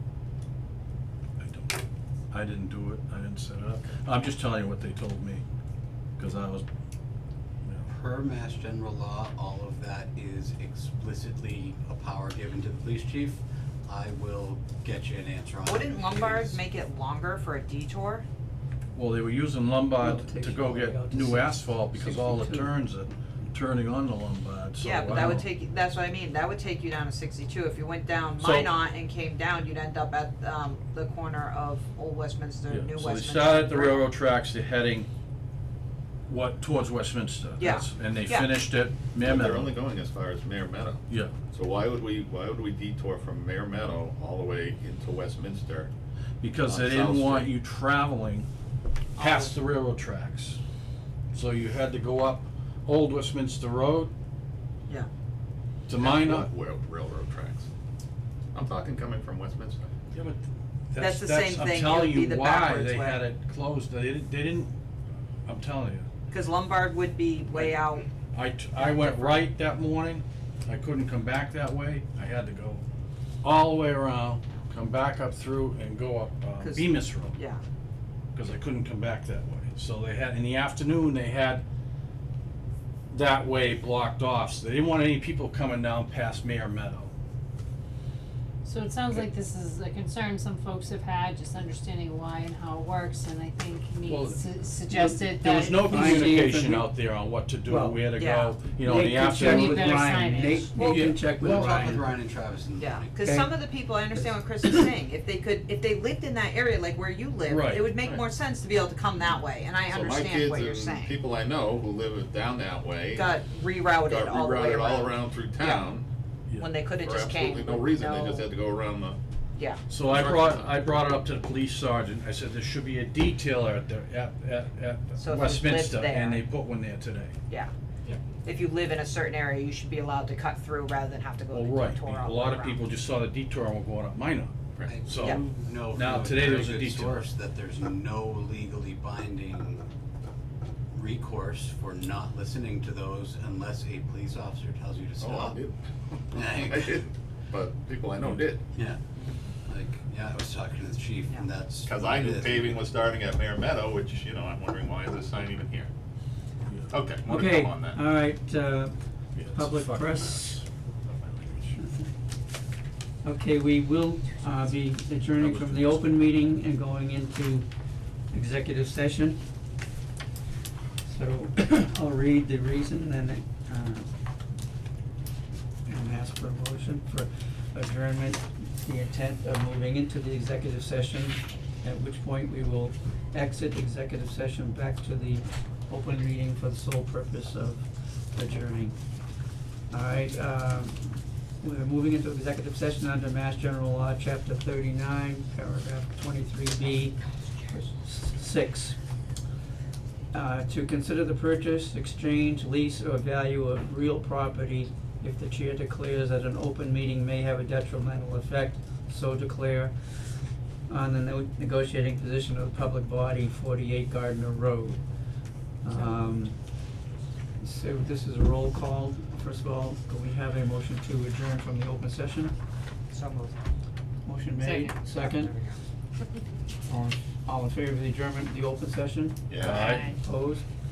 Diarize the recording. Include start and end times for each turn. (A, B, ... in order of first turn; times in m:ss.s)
0:01.4-0:01.8 A
0:02.3-0:05.4 A
0:06.2-0:06.6 A
0:07.9-0:16.6 B
0:15.6-0:18.2 C
0:19.0-0:25.5 A
0:20.0-0:22.8 D
0:24.8-0:34.0 C
0:28.4-0:28.7 A
0:32.7-0:35.1 A
0:36.3-0:39.7 A
0:37.6-0:38.5 C
0:39.2-0:45.9 E
0:41.1-0:41.3 A
0:46.4-0:48.5 A
0:46.6-0:47.5 E
0:49.2-0:49.5 C
0:49.2-0:50.6 A
0:51.3-0:54.1 A
0:55.9-0:56.5 A
0:56.0-0:57.7 E
0:58.5-0:59.9 E
1:00.1-1:04.7 A
1:01.0-1:03.2 C
1:05.4-1:06.1 A
1:06.3-1:08.1 C
1:08.3-1:12.8 A
1:08.8-1:09.4 C
1:13.4-1:17.3 A
1:16.6-1:17.6 C
1:18.3-1:21.6 A
1:23.1-1:27.1 A
1:28.6-1:36.4 F
1:34.0-1:34.4 A
1:35.1-1:40.1 A
1:35.8-1:36.9 D
1:37.7-1:38.0 D
1:38.1-1:38.7 C
1:38.8-1:42.2 D
1:39.3-1:40.7 F
1:40.7-1:41.2 C
1:40.8-1:41.7 A
1:41.2-1:43.2 B
1:42.8-1:51.2 C
1:43.2-1:43.6 D
1:47.5-1:47.8 A
1:49.9-1:53.3 E
1:53.1-1:55.9 C
1:54.0-1:56.0 E
1:56.6-1:58.5 C
1:57.0-1:59.2 E
1:59.6-1:59.8 C
1:59.9-2:07.4 A
2:00.0-2:00.8 E
2:05.2-2:06.4 C
2:08.4-2:12.8 C
2:11.5-2:15.4 A
2:14.9-2:19.9 B
2:15.9-2:17.2 A
2:20.9-2:25.6 B
2:25.2-2:25.8 E
2:26.3-2:28.6 E
2:26.3-2:27.0 B
2:28.8-2:29.0 B
2:29.7-2:32.8 B
2:31.9-2:35.9 E
2:36.9-2:38.0 E
2:37.2-2:40.6 D
2:39.3-2:40.6 A
2:41.0-2:41.7 E
2:41.7-2:42.1 D
2:43.2-2:47.7 D
2:45.4-2:46.0 A
2:48.3-2:49.4 D
2:51.0-2:54.1 D
2:55.9-3:09.0 D
3:09.9-3:19.0 D
3:20.3-3:35.1 D
3:35.8-3:36.9 D
3:35.9-3:36.2 C
3:37.6-3:42.5 D
3:43.1-3:43.6 C
3:44.2-3:45.5 D
3:44.6-3:45.8 C
3:46.9-3:50.7 D
3:49.5-3:49.9 E
3:49.6-3:50.1 A
3:49.7-3:50.2 C